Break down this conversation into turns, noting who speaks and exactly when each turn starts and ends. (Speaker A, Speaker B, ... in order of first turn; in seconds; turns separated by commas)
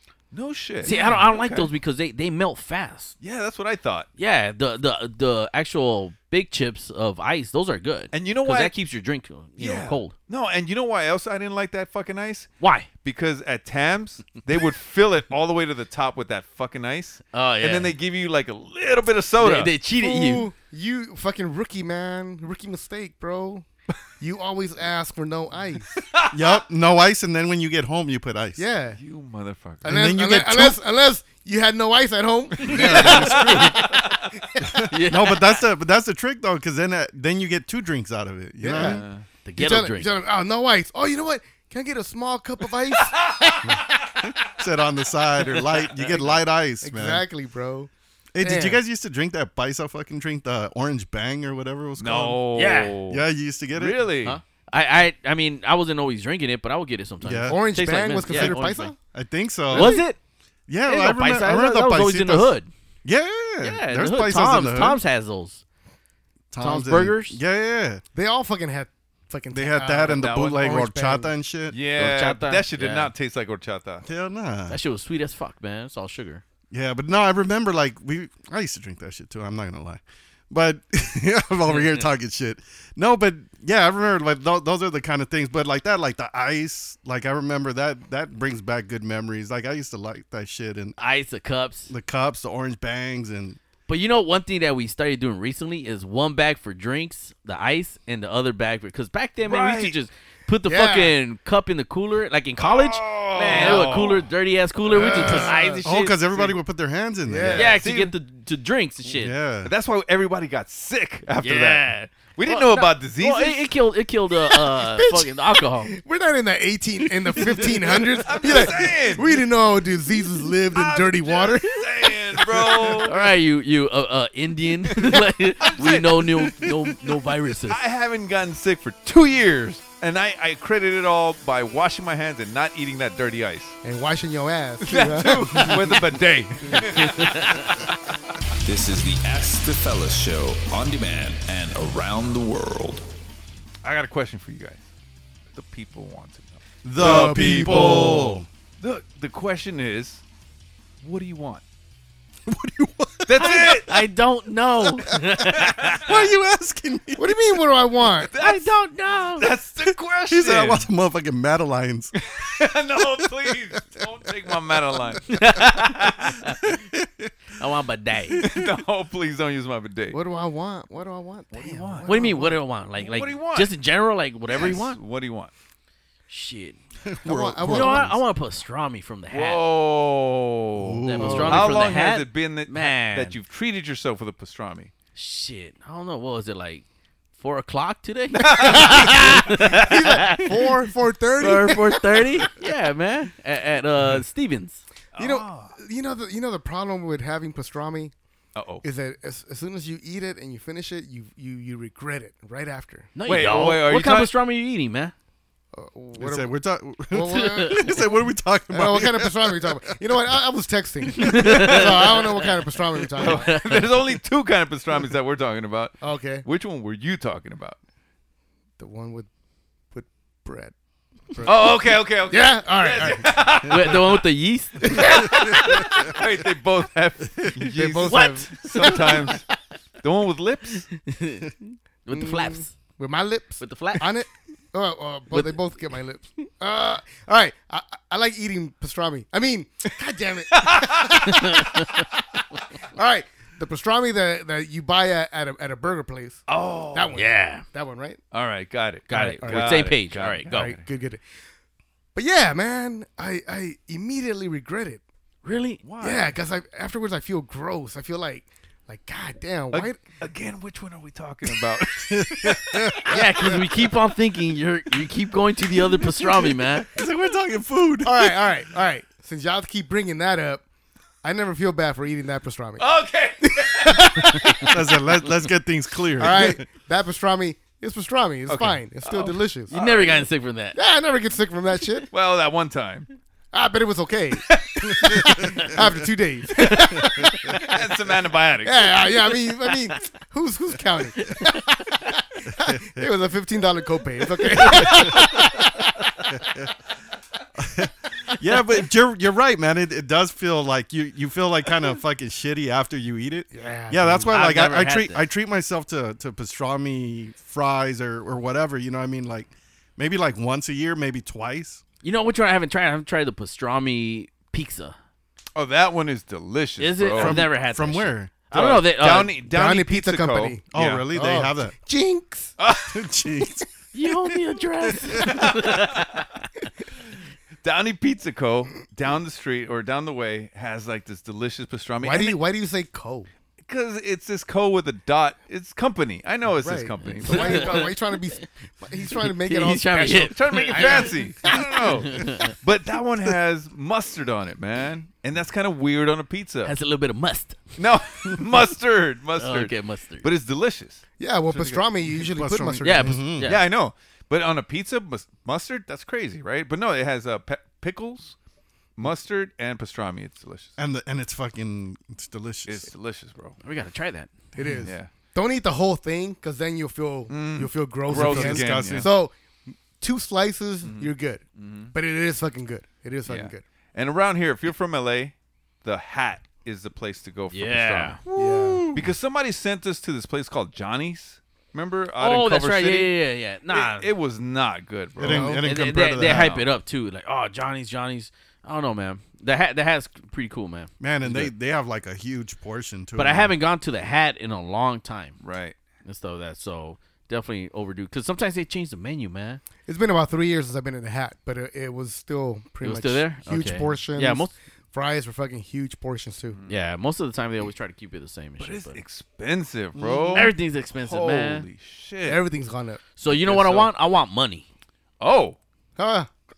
Speaker A: 0.3-1.7, Speaker B: 0.8-3.1, Speaker C: 0.9-1.2, Speaker A: 3.2-4.1, Speaker B: 4.2-10.1, Speaker A: 8.1-8.8, Speaker A: 9.6-12.5, Speaker B: 12.6-12.9, Speaker A: 13.0-19.7, Speaker B: 17.3-17.9, Speaker B: 19.4-20.5, Speaker C: 20.0-23.7, Speaker C: 24.2-25.9, Speaker A: 26.0-26.6, Speaker D: 26.3-28.6, Speaker C: 28.6-29.0, Speaker A: 29.0-30.0, Speaker C: 29.8-34.8, Speaker D: 29.8-30.8, Speaker D: 32.6-33.9, Speaker A: 32.6-34.2, Speaker D: 34.6-39.0, Speaker B: 34.9-35.5, Speaker C: 38.6-39.0, Speaker A: 38.7-39.2, Speaker B: 39.5-40.1, Speaker C: 39.6-44.1, Speaker D: 44.2-47.3, Speaker A: 45.6-46.2, Speaker C: 46.8-47.9, Speaker D: 48.3-52.4, Speaker C: 48.4-48.8, Speaker A: 52.0-53.2, Speaker B: 52.6-53.0, Speaker D: 53.1-54.0, Speaker A: 53.7-54.4, Speaker B: 54.2-58.9, Speaker D: 57.2-60.0, Speaker C: 57.5-59.0, Speaker B: 59.7-60.2, Speaker D: 60.7-65.0, Speaker B: 60.9-62.7, Speaker B: 63.6-65.6, Speaker D: 66.5-68.0, Speaker B: 66.6-67.4, Speaker C: 68.1-71.3, Speaker D: 69.5-71.8, Speaker A: 70.1-70.7, Speaker A: 71.7-74.0, Speaker B: 72.0-73.1, Speaker D: 74.0-74.8, Speaker B: 74.7-76.4, Speaker D: 76.7-91.0, Speaker B: 91.0-91.9, Speaker D: 91.9-93.6, Speaker B: 93.9-106.5, Speaker A: 99.5-100.0, Speaker C: 100.7-101.2, Speaker A: 102.6-104.3, Speaker C: 104.9-105.8, Speaker D: 105.0-107.7, Speaker C: 107.3-107.8, Speaker A: 107.4-108.1, Speaker B: 107.6-109.3, Speaker D: 109.1-109.7, Speaker A: 109.6-113.7, Speaker B: 111.4-115.9, Speaker C: 114.5-123.0, Speaker A: 118.2-119.4, Speaker A: 120.7-123.1, Speaker B: 123.0-127.8, Speaker A: 125.1-126.5, Speaker A: 127.7-133.8, Speaker C: 133.8-136.0, Speaker A: 134.8-137.8, Speaker B: 137.0-137.7, Speaker E: 138.7-143.1, Speaker A: 143.8-144.9, Speaker A: 145.5-150.2, Speaker D: 146.8-148.5, Speaker C: 147.0-148.3, Speaker A: 151.0-151.6, Speaker D: 152.5-153.5, Speaker A: 153.2-154.0, Speaker B: 153.3-156.0, Speaker A: 155.6-156.3, Speaker D: 156.0-157.6, Speaker C: 157.2-158.3, Speaker A: 158.3-158.7, Speaker B: 158.4-159.5, Speaker A: 159.4-160.8, Speaker D: 160.3-162.1, Speaker A: 162.2-165.7, Speaker B: 165.3-166.6, Speaker D: 166.5-167.3, Speaker B: 167.6-168.4, Speaker A: 168.4-170.2, Speaker D: 168.4-168.7, Speaker C: 170.1-172.6, Speaker A: 171.5-172.1, Speaker B: 172.1-175.0, Speaker A: 172.9-173.7, Speaker A: 174.5-175.5, Speaker B: 176.3-176.8, Speaker D: 177.1-178.0, Speaker C: 177.2-178.2, Speaker B: 177.7-179.6, Speaker A: 179.3-184.9, Speaker D: 180.8-181.8, Speaker B: 181.1-183.4, Speaker B: 185.2-186.8, Speaker B: 187.4-190.6, Speaker A: 188.4-190.0, Speaker C: 188.4-192.5, Speaker B: 191.4-194.8, Speaker A: 195.2-195.7, Speaker C: 195.2-198.1, Speaker A: 198.6-198.8, Speaker C: 198.8-203.1, Speaker B: 203.2-205.1, Speaker A: 203.3-204.3, Speaker C: 205.7-206.6, Speaker D: 206.2-210.4, Speaker C: 207.1-208.0, Speaker C: 208.7-213.6, Speaker D: 211.2-211.9, Speaker B: 211.2-212.4, Speaker A: 213.2-217.8, Speaker B: 213.2-213.8, Speaker C: 216.0-216.4, Speaker C: 218.8-219.3, Speaker C: 219.9-220.7, Speaker C: 221.3-223.6, Speaker A: 221.4-224.2, Speaker B: 223.6-225.1, Speaker A: 224.8-229.5, Speaker C: 224.9-225.2, Speaker C: 227.7-229.4, Speaker B: 228.1-229.1, Speaker A: 230.0-230.9, Speaker B: 231.0-232.7, Speaker C: 232.1-242.1, Speaker B: 233.6-234.1, Speaker A: 240.5-241.2, Speaker C: 242.9-248.2, Speaker A: 246.5-247.2, Speaker B: 247.1-247.6, Speaker A: 248.3-250.8, Speaker B: 249.1-250.8, Speaker C: 249.1-249.9, Speaker C: 250.5-251.2, Speaker C: 252.2-255.0, Speaker B: 255.4-255.8, Speaker A: 255.8-256.4, Speaker C: 256.0-260.0, Speaker A: 259.7-263.0, Speaker D: 262.1-263.6, Speaker B: 263.1-266.9, Speaker D: 266.9-268.5, Speaker C: 268.0-270.6, Speaker C: 271.2-272.9, Speaker A: 272.8-274.4, Speaker C: 273.4-274.7, Speaker D: 274.6-276.7, Speaker C: 276.2-279.7, Speaker A: 278.5-280.3, Speaker B: 279.7-280.8, Speaker C: 280.8-282.1, Speaker A: 282.1-283.1, Speaker C: 283.5-287.7, Speaker B: 286.6-287.1, Speaker A: 287.5-289.1, Speaker C: 288.6-295.9, Speaker D: 292.6-293.1, Speaker D: 294.8-295.2, Speaker D: 296.4-296.7, Speaker D: 297.6-311.8, Speaker C: 303.5-304.4, Speaker B: 304.2-305.2, Speaker B: 312.0-315.0, Speaker A: 315.6-317.4, Speaker B: 316.8-319.4, Speaker D: 317.2-318.3, Speaker A: 318.5-321.1, Speaker C: 319.4-322.5, Speaker D: 320.7-321.7, Speaker A: 322.6-323.0, Speaker D: 322.9-325.4, Speaker B: 323.9-326.2, Speaker A: 325.2-326.2, Speaker A: 327.6-332.4, Speaker C: 332.0-333.3, Speaker A: 333.6-337.9, Speaker C: 336.5-341.9, Speaker B: 337.1-337.9, Speaker B: 339.2-341.2, Speaker A: 340.3-346.7, Speaker B: 342.1-342.5, Speaker B: 346.6-347.6, Speaker A: 347.8-351.8, Speaker B: 349.4-350.3, Speaker C: 351.2-353.3, Speaker D: 352.2-353.5, Speaker B: 352.8-353.7, Speaker A: 353.4-358.4, Speaker A: 359.0-360.7, Speaker D: 360.8-362.9, Speaker A: 362.7-363.6, Speaker B: 363.6-364.3, Speaker C: 364.6-369.3, Speaker D: 364.6-364.9, Speaker A: 364.8-365.1, Speaker A: 367.3-369.1, Speaker D: 368.1-369.1, Speaker C: 370.0-373.6, Speaker A: 370.8-371.9, Speaker A: 373.3-383.1, Speaker B: 377.5-378.2, Speaker C: 378.4-379.0, Speaker B: 382.2-384.1, Speaker A: 383.7-385.5, Speaker D: 385.2-386.6, Speaker C: 385.2-385.6, Speaker B: 385.5-391.5, Speaker A: 386.2-386.7, Speaker D: 391.0-393.5, Speaker B: 393.2-395.4, Speaker A: 395.4-395.8, Speaker B: 396.1-399.6, Speaker C: 399.9-406.6, Speaker B: 402.8-404.5, Speaker A: 406.5-406.8, Speaker B: 406.7-409.0, Speaker A: 408.6-412.4, Speaker C: 410.0-410.5, Speaker B: 410.3-411.7, Speaker C: 412.2-413.0, Speaker B: 413.2-414.7, Speaker A: 413.3-413.9, Speaker A: 415.2-415.6, Speaker C: 416.0-416.3